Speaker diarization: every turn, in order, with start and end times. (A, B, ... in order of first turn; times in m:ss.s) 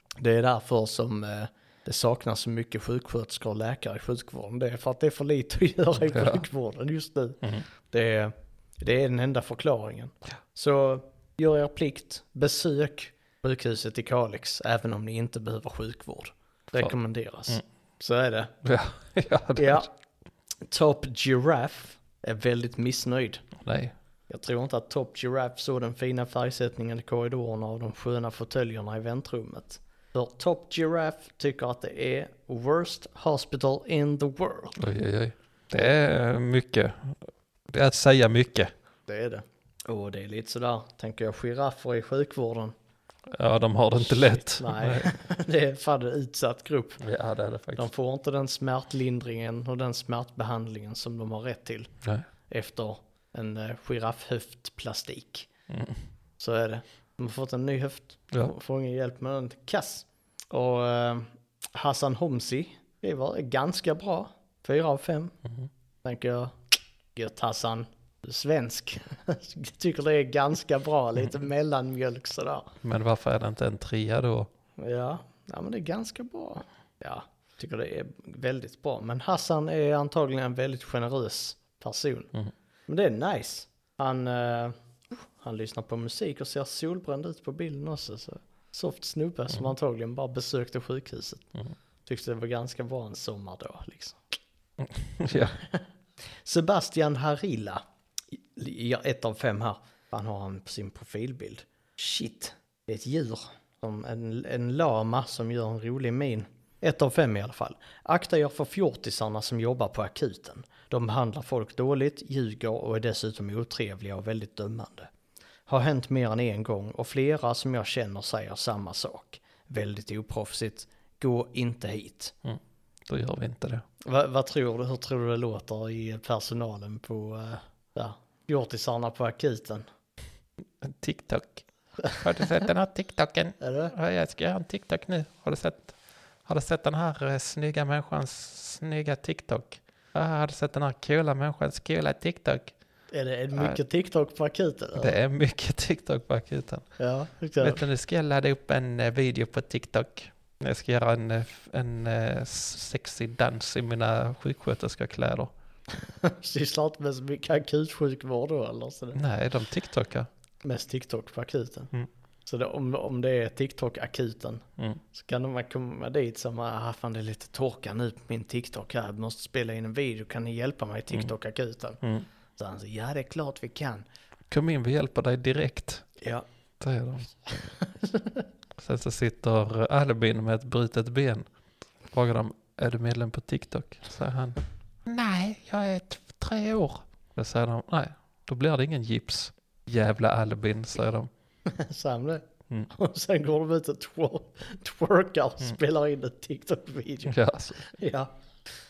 0:00.2-0:18.5 A
0:06.1-0:06.4 B
0:18.6-0:19.9 B
0:19.6-0:19.9 A
0:20.6-0:23.4 A
0:23.6-0:23.9 B
0:24.3-0:34.8 A
0:34.8-0:38.7 B
0:39.1-0:42.7 A
0:43.3-0:45.1 B
0:44.0-0:47.0 A
0:47.0-0:47.9 B
0:47.8-0:51.9 A
0:52.5-0:55.5 A
0:55.7-0:56.0 B
0:56.4-1:05.3 A
1:06.0-1:12.7 A
1:12.8-1:14.5 B
1:14.8-1:22.3 A
1:22.9-1:31.5 A
1:32.0-1:34.2 A
1:34.8-1:35.6 B
1:35.3-1:55.1 A
1:55.7-2:02.3 A
2:02.4-2:03.8 B
2:04.0-2:09.8 A
2:10.8-2:22.7 B
2:13.6-2:13.9 A
2:23.1-2:25.2 A
2:23.5-2:23.8 B
2:25.0-2:26.9 B
2:27.0-2:27.8 A
2:27.6-2:35.5 B
2:35.9-2:39.2 A
2:39.1-2:40.3 B
2:40.6-2:41.9 A
2:42.4-2:52.0 A
2:52.0-2:52.3 B
2:52.6-2:54.0 A
2:54.5-2:56.1 B
2:56.2-2:56.4 A
2:56.8-2:57.3 B
2:57.5-2:58.4 A
2:58.8-3:01.5 B
3:02.1-3:11.3 B
3:11.6-3:18.3 A
3:17.2-3:17.9 B